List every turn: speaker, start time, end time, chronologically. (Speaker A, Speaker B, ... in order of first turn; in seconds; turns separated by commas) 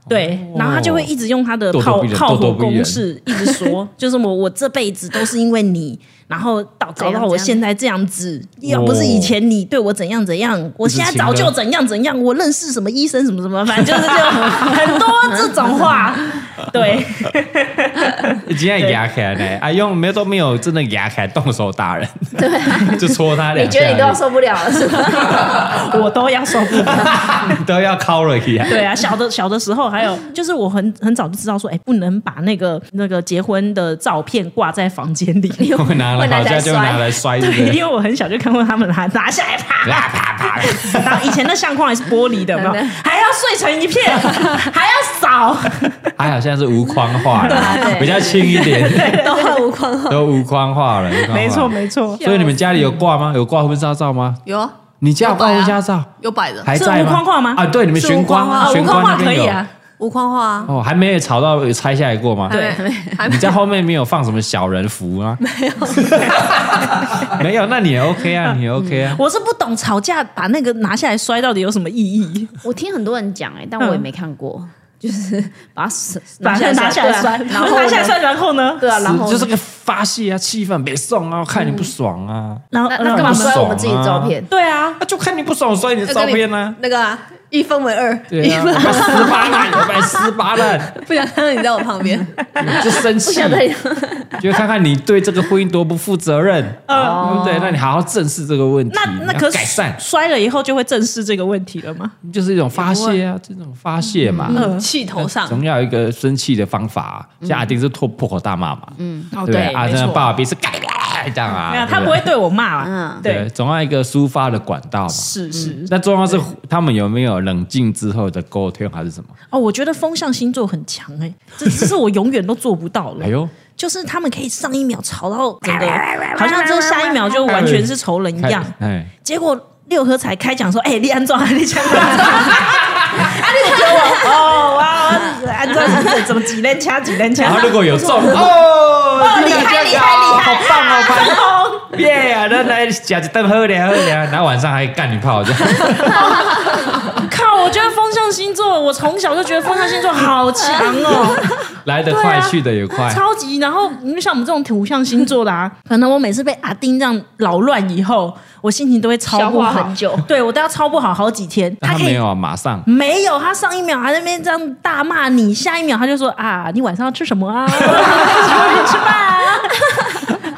Speaker A: 0.1-1.1, Speaker B: 0.1-19.0, Speaker A: 1.7-3.0, Speaker C: 7.0-7.6, Speaker A: 8.6-9.3, Speaker A: 10.8-11.5, Speaker C: 15.3-15.7, Speaker A: 18.4-24.2, Speaker C: 22.4-25.7, Speaker B: 25.2-27.4, Speaker A: 26.7-28.8, Speaker B: 28.7-35.7, Speaker C: 35.6-37.1, Speaker A: 35.7-37.8, Speaker B: 37.4-46.1, Speaker A: 39.8-41.2, Speaker C: 42.5-43.0, Speaker A: 46.2-49.2, Speaker B: 47.4-49.6, Speaker C: 47.4-50.2, Speaker D: 49.2-50.1, Speaker A: 50.1-54.4, Speaker B: 51.3-52.5, Speaker D: 54.5-56.7, Speaker A: 55.0-56.1, Speaker A: 56.6-59.6, Speaker B: 56.7-57.6, Speaker D: 58.0-59.3, Speaker B: 58.5-59.7, Speaker D: 60.0-60.7, Speaker A: 60.7-62.6, Speaker D: 62.5-63.6, Speaker B: 62.5-62.8, Speaker C: 62.5-63.3, Speaker A: 63.2-65.4, Speaker D: 65.5-66.1, Speaker A: 65.9-69.2, Speaker B: 69.1-72.5, Speaker C: 72.6-78.2, Speaker B: 73.8-74.0, Speaker B: 76.4-79.0, Speaker C: 78.8-79.5, Speaker A: 79.0-84.3, Speaker B: 82.7-83.6, Speaker C: 82.9-84.5, Speaker B: 84.5-85.0, Speaker A: 85.0-86.8, Speaker D: 86.1-90.2, Speaker A: 88.3-91.0, Speaker C: 88.7-89.2, Speaker D: 90.8-92.8, Speaker A: 92.6-93.7, Speaker C: 92.7-94.5, Speaker A: 94.4-100.0, Speaker B: 96.9-97.5, Speaker C: 96.9-97.8, Speaker B: 98.9-102.2, Speaker A: 102.2-104.6, Speaker D: 102.8-103.2, Speaker C: 104.3-104.9, Speaker D: 104.5-105.6, Speaker B: 104.5-105.2, Speaker A: 105.2-112.3, Speaker C: 107.4-107.7, Speaker C: 109.0-109.3, Speaker B: 109.3-110.3, Speaker B: 111.7-113.5, Speaker C: 112.8-113.3, Speaker A: 113.2-115.3, Speaker B: 115.1-115.9, Speaker C: 115.5-115.8, Speaker A: 115.9-119.3, Speaker B: 119.5-138.5, Speaker A: 123.2-123.5, Speaker C: 125.7-127.6, Speaker A: 127.5-129.1, Speaker C: 133.2-134.6, Speaker C: 135.8-136.2, Speaker A: 137.3-147.2, Speaker B: 139.2-141.9, Speaker C: 139.2-140.7, Speaker B: 146.2-151.6, Speaker C: 150.8-151.6, Speaker A: 151.8-153.2, Speaker B: 152.1-162.2, Speaker C: 159.3-160.3, Speaker A: 161.8-162.9, Speaker B: 162.8-170.1, Speaker A: 167.9-168.9